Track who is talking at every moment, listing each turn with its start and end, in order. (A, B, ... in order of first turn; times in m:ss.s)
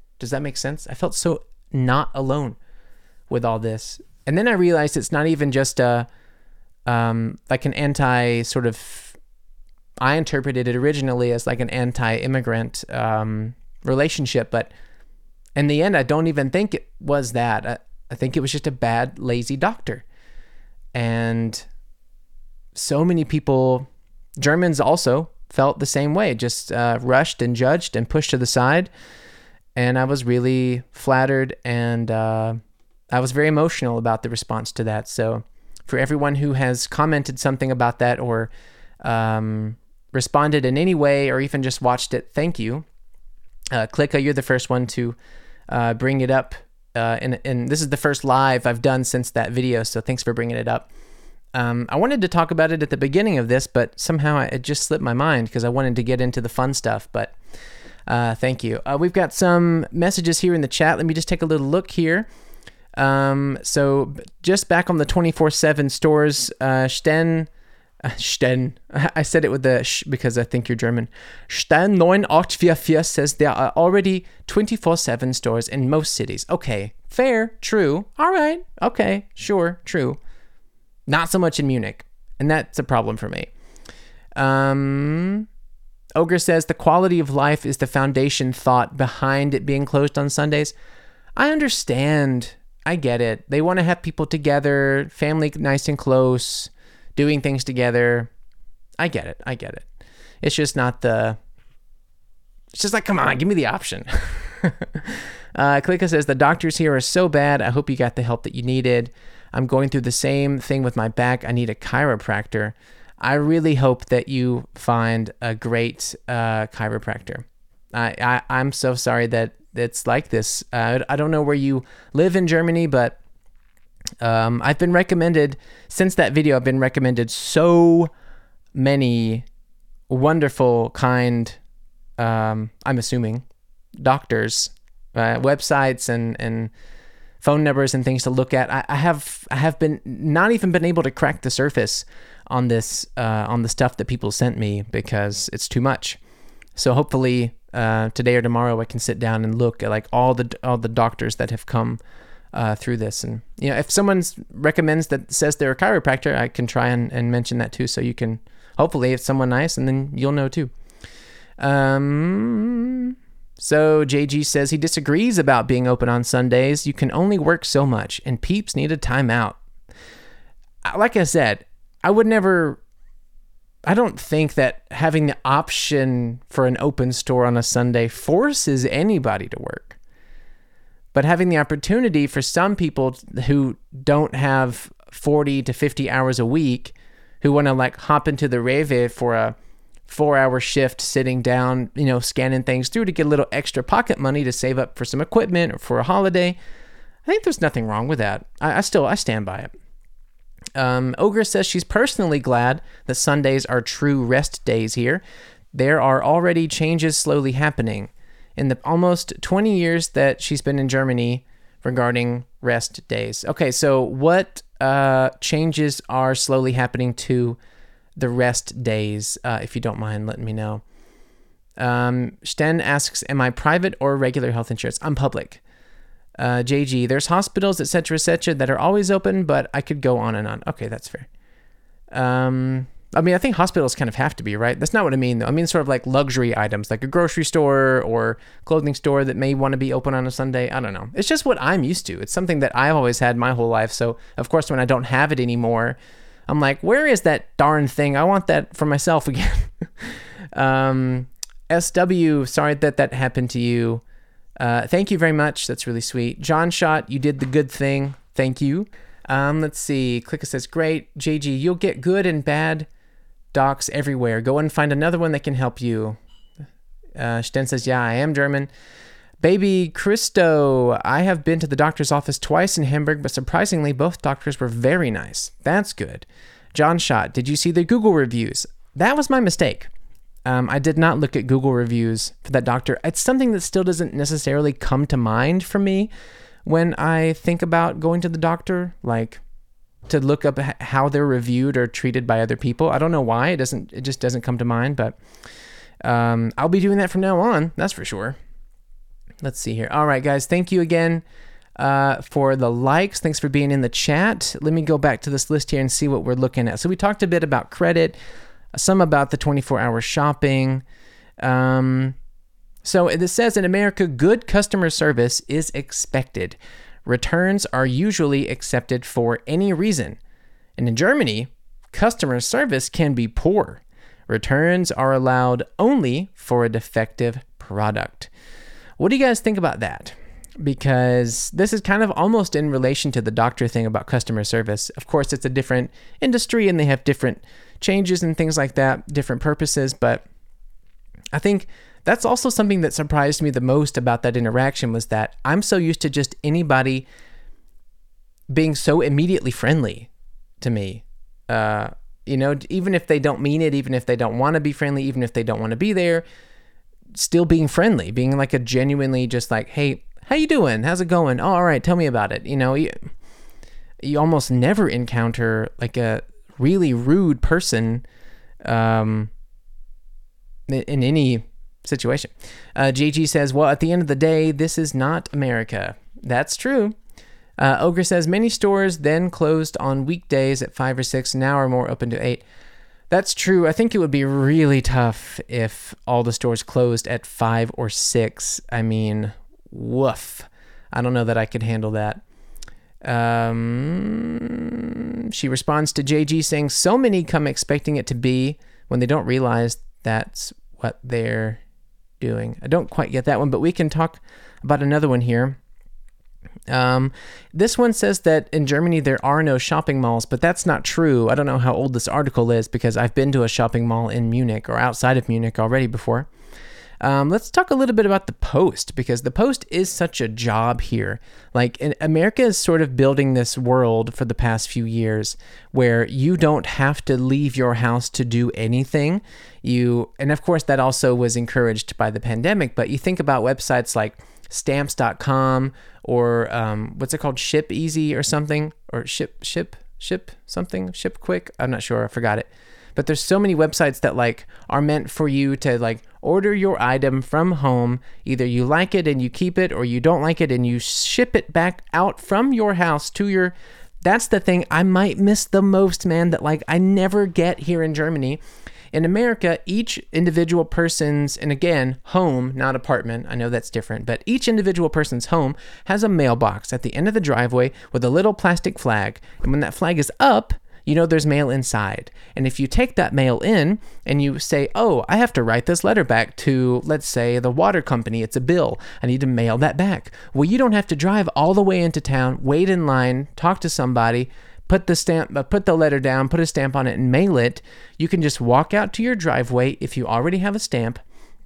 0:00.2-0:02.6 A
0:03.3-0:06.1 A
0:06.9-0:09.2 A
0:10.0-0:14.7 A
0:15.6-0:20.0 A
0:20.9-0:21.6 A
0:22.7-0:23.9 A
0:24.4-0:28.9 A
0:29.8-0:32.6 A
0:33.1-0:38.5 A
0:39.0-0:42.8 A
0:43.7-0:45.2 A
0:45.7-0:50.9 A
0:51.5-0:57.3 A
0:58.1-1:02.2 A
1:02.9-1:07.5 A
1:08.0-1:20.2 A
1:21.1-1:23.5 A
1:24.4-1:25.5 A
1:26.2-1:30.7 A
1:31.4-1:38.3 A
1:39.0-1:39.8 A
1:40.4-1:41.4 A
1:42.7-2:03.2 A
2:04.2-2:08.1 A
2:08.7-2:09.4 A
2:10.1-2:11.6 A
2:12.2-2:13.4 A
2:14.0-2:16.7 A
2:17.4-2:26.2 A
2:26.8-2:32.0 A
2:32.5-2:40.7 A
2:41.6-2:49.6 A
2:50.8-2:52.8 A
2:53.9-3:00.0 A
3:01.1-3:09.5 A
3:10.1-3:16.6 A
3:17.2-3:19.7 A
3:20.8-3:25.2 A
3:25.7-3:37.6 A
3:38.2-3:40.8 A
3:41.8-3:45.6 A
3:46.4-3:51.3 A
3:52.1-4:06.0 A
4:06.5-4:14.0 A
4:14.6-4:22.9 A
4:23.5-4:26.2 A
4:27.2-4:28.7 A
4:29.4-4:39.9 A
4:40.4-4:46.1 A
4:46.6-4:49.4 A
4:50.1-4:55.2 A
4:56.0-4:58.4 A
4:59.4-5:01.2 A
5:01.8-5:08.2 A
5:08.7-5:10.8 A
5:11.4-5:12.2 A
5:12.8-5:20.2 A
5:20.8-5:28.3 A
5:29.0-5:40.2 A
5:41.3-5:47.0 A
5:48.5-5:50.1 A
5:50.6-5:56.2 A
5:57.1-6:03.1 A
6:04.0-6:08.0 A
6:08.6-6:09.3 A
6:10.7-6:17.0 A
6:17.6-6:22.4 A
6:23.1-6:32.2 A
6:33.0-6:41.6 A
6:42.2-6:45.6 A
6:46.7-6:56.3 A
6:57.0-7:38.4 A
7:38.9-8:11.0 A